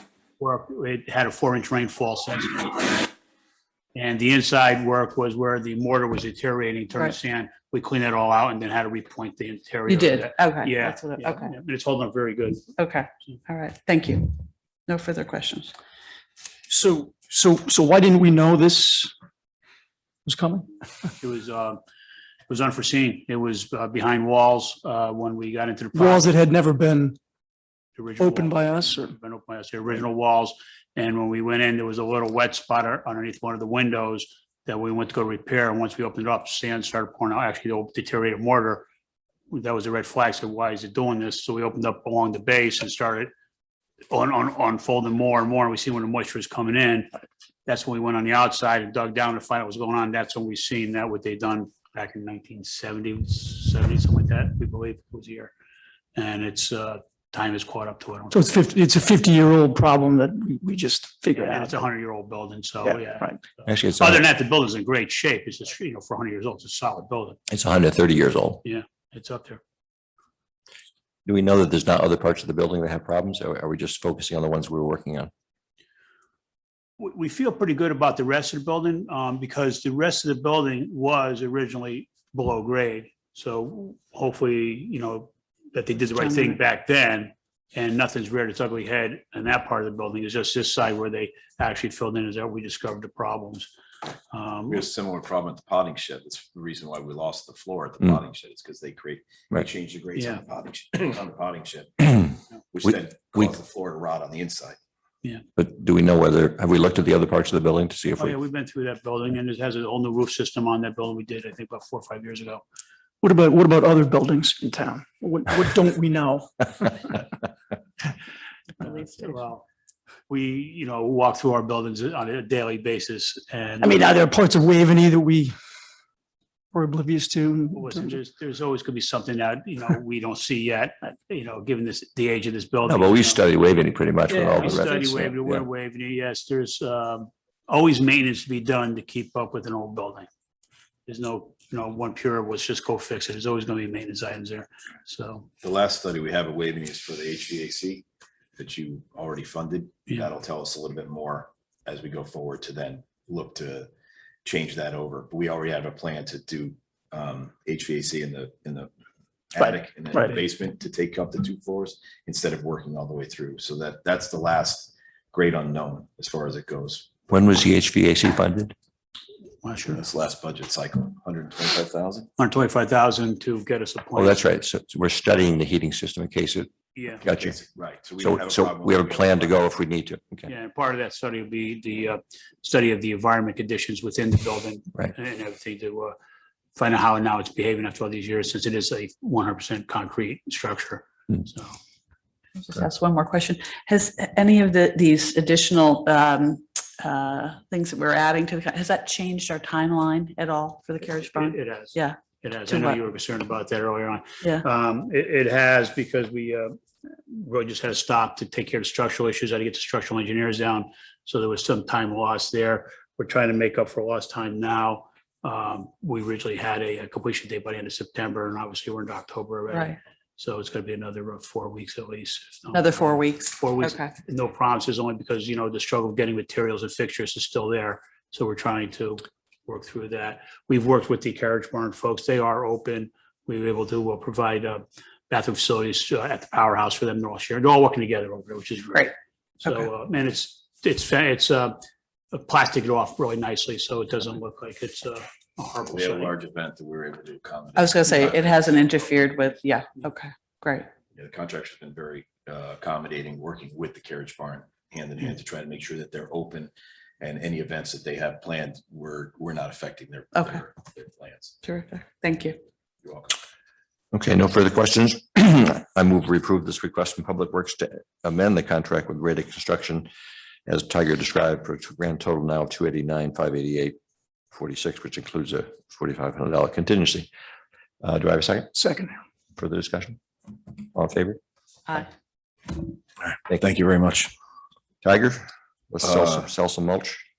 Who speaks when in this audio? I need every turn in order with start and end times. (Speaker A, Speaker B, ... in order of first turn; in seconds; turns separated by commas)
Speaker A: 0.4-3.0, Speaker A: 3.9-12.7, Speaker B: 9.9-11.5, Speaker B: 12.8-15.7, Speaker C: 16.7-19.1, Speaker C: 20.2-20.7, Speaker A: 21.2-21.8, Speaker A: 22.5-26.3, Speaker C: 25.9-27.2, Speaker A: 27.9-38.9, Speaker C: 28.2-29.2, Speaker A: 39.5-43.3, Speaker A: 44.1-47.1, Speaker A: 47.6-55.5, Speaker A: 56.1-58.6, Speaker C: 58.3-61.7, Speaker A: 61.3-67.4, Speaker C: 62.8-63.4, Speaker D: 63.6-64.2, Speaker D: 67.5-68.6, Speaker A: 68.6-69.6, Speaker D: 71.2-75.3, Speaker A: 77.0-93.7, Speaker B: 86.2-86.6, Speaker A: 94.3-94.9, Speaker E: 94.7-104.8, Speaker A: 100.1-100.4, Speaker D: 102.9-103.5, Speaker D: 105.5-108.3, Speaker A: 108.2-112.6, Speaker C: 113.2-116.9, Speaker B: 118.8-119.3, Speaker A: 118.8-119.6, Speaker A: 120.3-124.1, Speaker C: 123.8-125.5, Speaker C: 126.7-128.2, Speaker A: 127.7-133.4, Speaker D: 132.8-135.6, Speaker A: 134.6-140.3, Speaker A: 141.1-145.5, Speaker E: 145.6-148.0, Speaker E: 148.6-153.9, Speaker E: 154.4-158.9, Speaker E: 159.5-167.2, Speaker C: 159.6-160.4, Speaker D: 167.3-168.7, Speaker A: 169.6-170.0, Speaker E: 169.9-172.3, Speaker A: 172.4-174.4, Speaker D: 174.1-177.6, Speaker A: 176.9-177.2, Speaker E: 177.3-179.6, Speaker D: 178.2-180.5, Speaker A: 180.5-186.1, Speaker A: 186.8-191.7, Speaker B: 192.6-203.0, Speaker A: 201.0-206.7, Speaker B: 204.4-204.7, Speaker A: 207.3-241.8, Speaker B: 219.7-220.0, Speaker B: 222.7-224.1, Speaker A: 242.3-246.3, Speaker E: 245.9-249.0, Speaker B: 247.8-250.9, Speaker E: 251.1-261.6, Speaker B: 260.3-260.6, Speaker B: 261.6-262.6, Speaker E: 263.0-263.4, Speaker D: 264.1-270.1, Speaker D: 270.6-273.9, Speaker D: 274.5-277.3, Speaker D: 278.0-278.7, Speaker C: 278.7-279.1, Speaker D: 279.6-280.2, Speaker D: 280.8-281.4, Speaker E: 283.2-284.3, Speaker D: 285.0-287.2, Speaker E: 286.0-286.4